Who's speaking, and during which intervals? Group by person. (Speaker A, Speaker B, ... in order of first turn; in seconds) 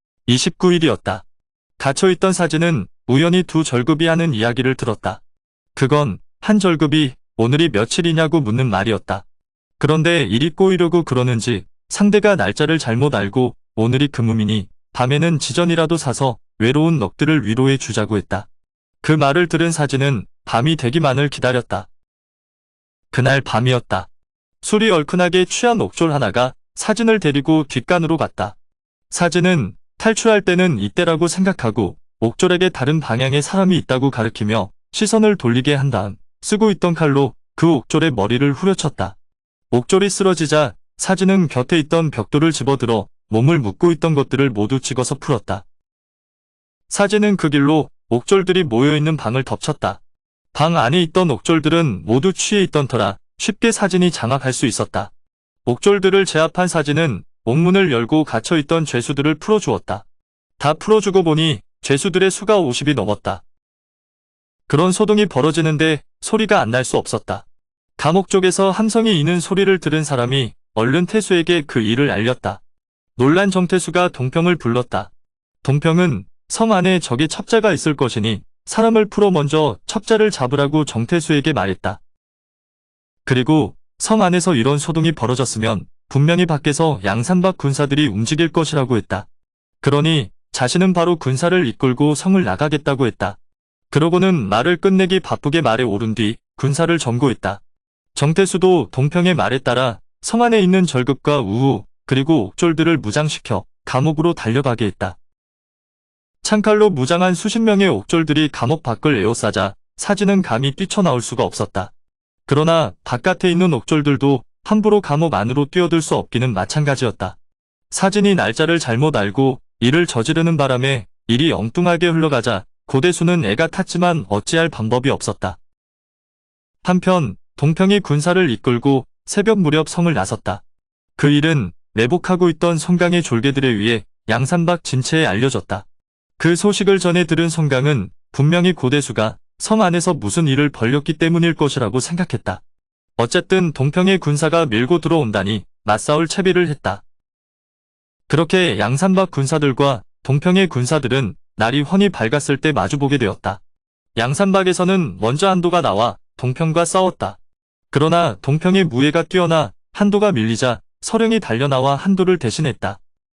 Speaker A: 0.3-1.2, 1.8-5.2, 5.8-9.2, 9.8-18.5, 19.0-21.9, 23.1-24.1, 24.6-28.6, 29.1-39.2, 39.7-45.6, 46.9-50.0, 50.5-55.1, 55.6-60.0, 60.6-63.4, 64.7-67.5, 68.0-72.6, 73.2-75.1, 75.6-82.0, 83.3-89.3, 89.8-93.4, 93.9-97.6, 98.2-105.2, 106.4-111.9, 112.5-117.4, 117.9-125.6, 126.8-130.6, 131.2-135.8, 136.4-142.6, 143.2-147.0, 148.3-153.6, 154.2-157.4, 157.9-163.0